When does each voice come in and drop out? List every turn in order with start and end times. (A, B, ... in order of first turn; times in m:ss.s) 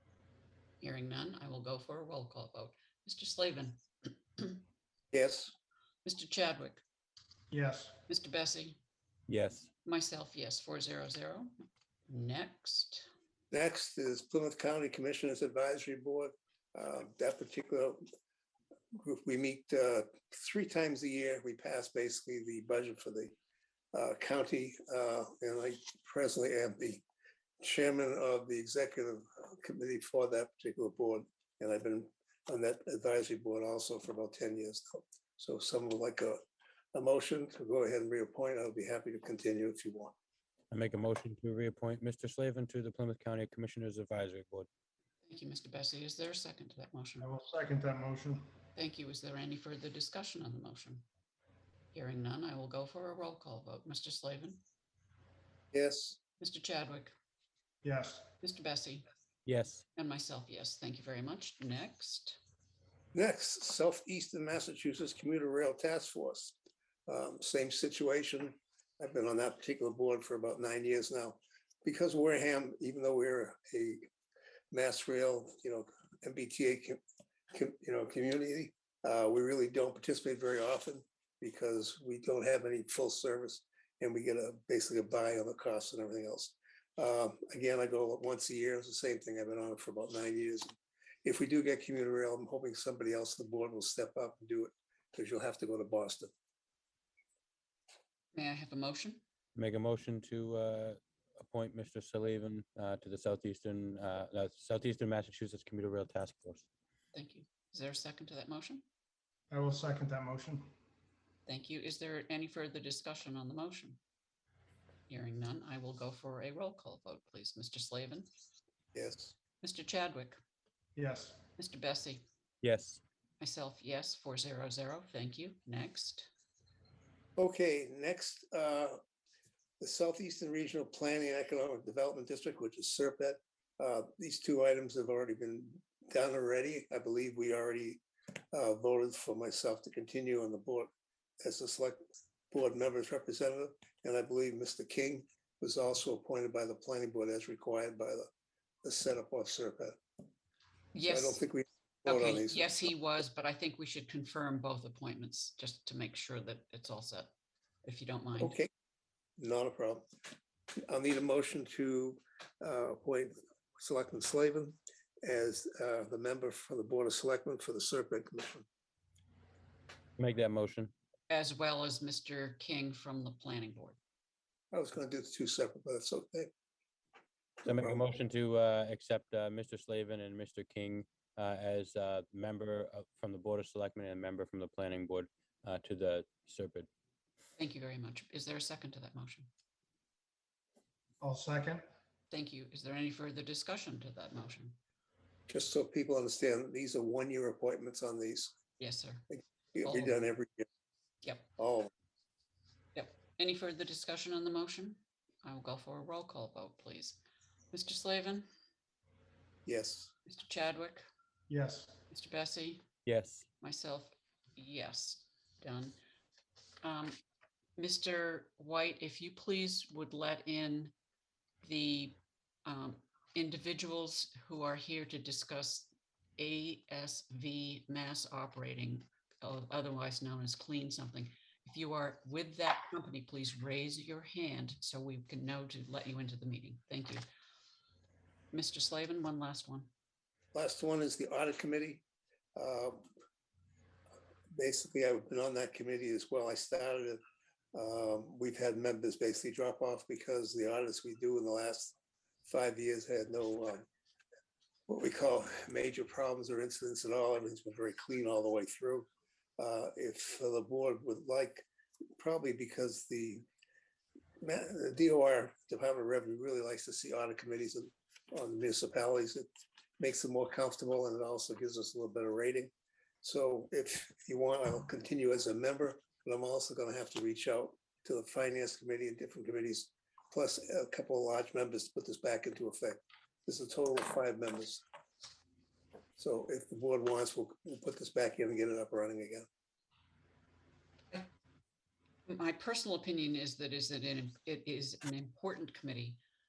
0:00.8-0:04.6 A
0:05.1-0:05.5 B
0:06.0-0:06.8 A
0:07.5-0:08.0 C
0:08.1-0:08.8 A
0:09.3-0:09.7 D
0:09.8-0:11.5 A
0:12.1-0:13.1 A
0:13.5-0:18.0 B
0:18.9-0:23.3 B
0:23.9-0:27.0 B
0:27.6-0:36.4 B
0:36.9-0:40.1 B
0:40.7-0:44.7 D
0:45.2-0:47.3 A
0:47.2-0:48.4 C
0:48.7-0:51.0 A
0:51.9-0:54.6 A
0:55.7-0:56.2 B
0:56.4-0:57.1 A
0:57.8-0:58.3 C
0:58.4-0:59.0 A
0:59.4-0:59.8 D
1:00.0-1:02.4 A
1:03.1-1:06.6 B
1:07.1-1:14.0 B
1:14.7-1:17.0 B
1:17.5-1:36.3 B
1:38.3-1:39.2 A
1:39.5-1:46.6 D
1:47.1-1:48.8 A
1:49.5-1:50.7 C
1:51.4-1:54.0 A
1:55.1-1:58.3 A
1:58.9-1:59.3 B
1:59.6-2:00.4 A
2:01.0-2:01.4 C
2:01.6-2:02.2 A
2:02.6-2:03.0 D
2:03.4-2:06.3 A
2:07.4-2:09.0 B
2:09.8-2:18.0 B
2:18.5-2:20.9 B
2:21.4-2:22.0 B
2:22.5-2:28.3 B
2:28.8-2:30.0 B
2:30.9-2:31.4 A
2:31.1-2:32.7 B
2:32.0-2:37.3 A
2:37.8-2:38.6 A
2:38.4-2:38.7 B
2:39.4-2:40.0 B
2:40.9-2:48.6 B
2:50.2-2:50.9 D
2:51.3-2:54.0 A
2:54.7-2:56.5 B
2:57.6-3:06.9 D
2:57.7-2:58.0 B
3:07.6-3:09.5 A
3:11.2-3:11.8 C
3:12.3-3:14.8 A
3:15.5-3:18.5 B
3:18.8-3:19.2 A
3:19.3-3:20.7 B
3:19.8-3:20.2 A
3:21.2-3:21.5 A
3:21.6-3:21.9 B
3:22.9-3:27.2 A
3:27.7-3:28.5 A
3:29.6-3:30.1 B
3:30.2-3:31.0 A
3:31.5-3:32.0 C
3:32.1-3:32.8 A
3:33.0-3:33.4 D
3:33.6-3:36.0 A
3:36.8-3:37.2 A
3:37.8-3:40.9 A
3:41.6-3:57.2 A
3:58.5-3:59.9 A
4:00.5-4:02.0 B
4:02.6-4:03.0 B
4:04.5-4:07.2 B
4:07.7-4:11.9 B
4:12.4-4:13.8 B
4:14.9-4:21.6 B
4:22.2-4:23.4 B
4:24.4-4:29.4 B
4:30.0-4:32.7 B
4:33.2-4:44.8 B
4:46.2-4:49.4 B
4:52.3-4:56.2 A